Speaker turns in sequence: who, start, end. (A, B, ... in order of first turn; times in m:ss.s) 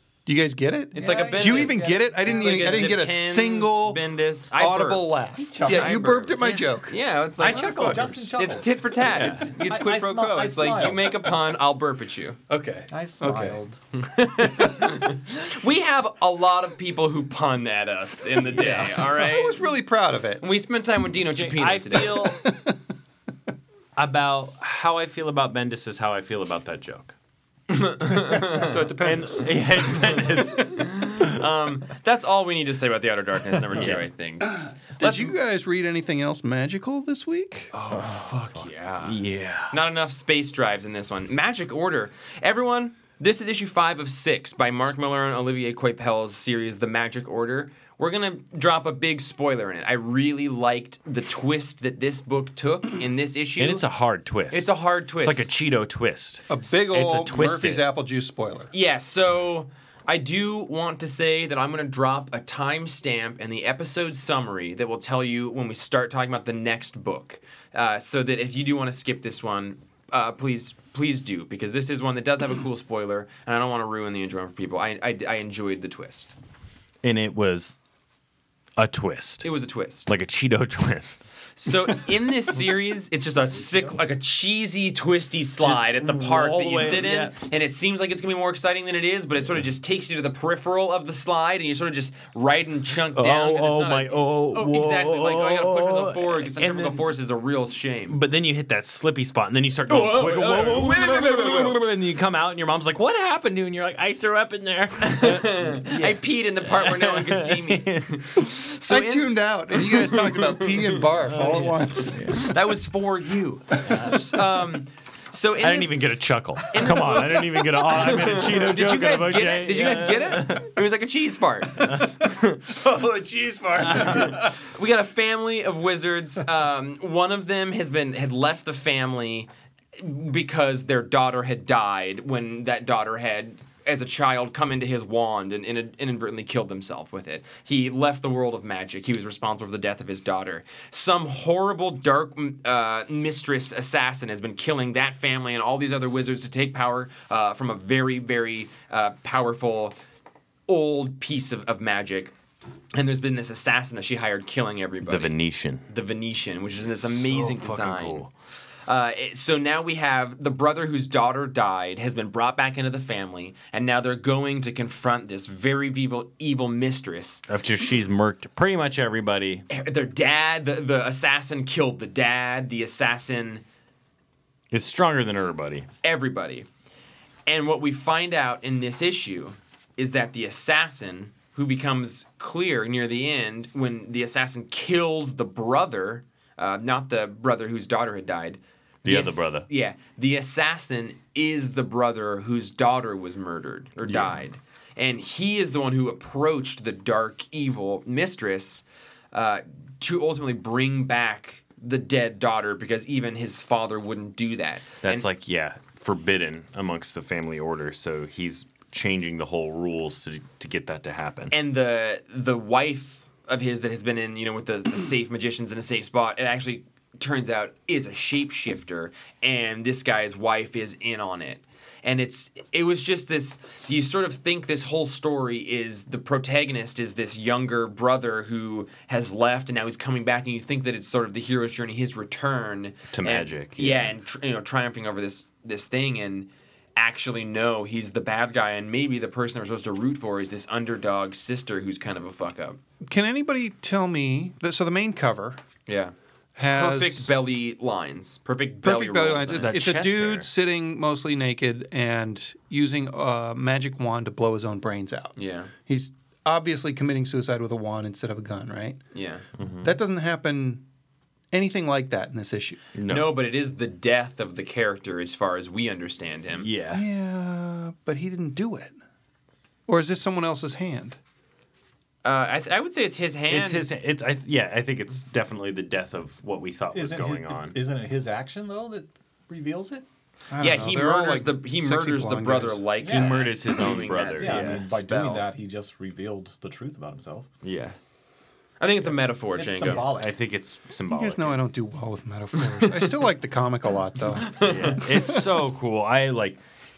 0:00.2-0:04.0 A
0:00.9-0:12.4 B
0:00.9-0:02.9 C
0:04.5-0:08.2 A
0:05.4-0:06.2 C
0:07.4-0:11.1 C
0:09.1-0:09.4 D
0:12.5-0:13.6 A
0:12.9-0:13.8 C
0:13.9-0:19.6 B
0:18.5-0:20.4 A
0:20.4-0:22.2 B
0:21.3-0:22.4 D
0:22.2-0:22.8 A
0:24.0-0:27.1 D
0:27.7-0:28.9 B
0:28.4-0:30.4 A
0:29.0-0:31.3 D
0:30.6-0:35.3 B
0:33.7-0:34.1 D
0:35.0-0:37.7 A
0:37.7-0:39.2 B
0:37.9-0:39.8 D
0:39.7-0:53.8 B
0:53.6-0:57.8 D
0:54.5-0:55.5 B
0:56.5-0:58.7 A
0:58.7-1:16.3 B
1:17.0-1:17.8 D
1:18.8-1:19.5 D
1:19.4-1:20.1 B
1:20.1-1:21.2 D
1:21.6-1:38.2 B
1:25.6-1:27.4 D
1:33.1-1:37.1 D
1:38.1-1:48.2 D
1:39.9-1:41.8 B
1:45.0-1:50.8 B
1:48.8-1:52.5 A
1:51.3-1:52.4 D
1:52.4-1:56.0 B
1:53.8-1:54.2 D
1:55.6-2:00.7 D
1:56.7-2:30.0 B
2:01.8-2:02.1 D
2:03.8-2:04.4 D
2:30.7-2:32.3 B
2:32.9-2:35.3 B
2:35.0-2:35.8 D
2:35.9-2:38.3 B
2:36.8-2:38.3 D
2:38.9-2:47.4 B
2:47.5-2:49.7 D
2:49.7-2:53.6 B
2:54.7-2:55.9 D
2:56.0-2:56.7 B
2:57.5-3:25.2 B
3:09.0-3:09.6 D
3:14.0-3:14.4 D
3:25.0-3:31.5 D
3:31.5-4:02.8 B
3:53.1-3:54.1 D
4:03.0-4:05.6 A
4:05.9-4:06.1 B
4:06.6-4:07.3 A
4:06.7-4:09.7 B
4:08.8-4:19.0 A
4:09.6-4:10.5 D
4:15.4-4:15.7 B
4:19.1-4:19.4 B
4:19.6-4:19.9 D
4:19.8-4:20.8 A
4:21.5-4:22.8 A
4:22.9-4:23.3 D
4:23.1-4:26.7 B
4:26.6-4:27.0 D
4:26.9-4:29.0 A
4:29.9-4:31.2 A
4:32.2-4:33.8 B
4:33.5-4:37.8 D
4:36.9-4:40.0 C
4:40.5-4:42.8 A
4:40.6-4:45.4 B
4:43.0-4:43.4 C
4:43.0-4:44.8 D
4:44.4-4:47.5 C
4:47.6-4:48.0 D
4:48.8-4:50.1 B
4:49.5-4:50.3 C
4:50.1-4:51.6 D
4:51.1-4:55.3 A
4:54.4-4:55.0 B
4:54.6-4:56.6 D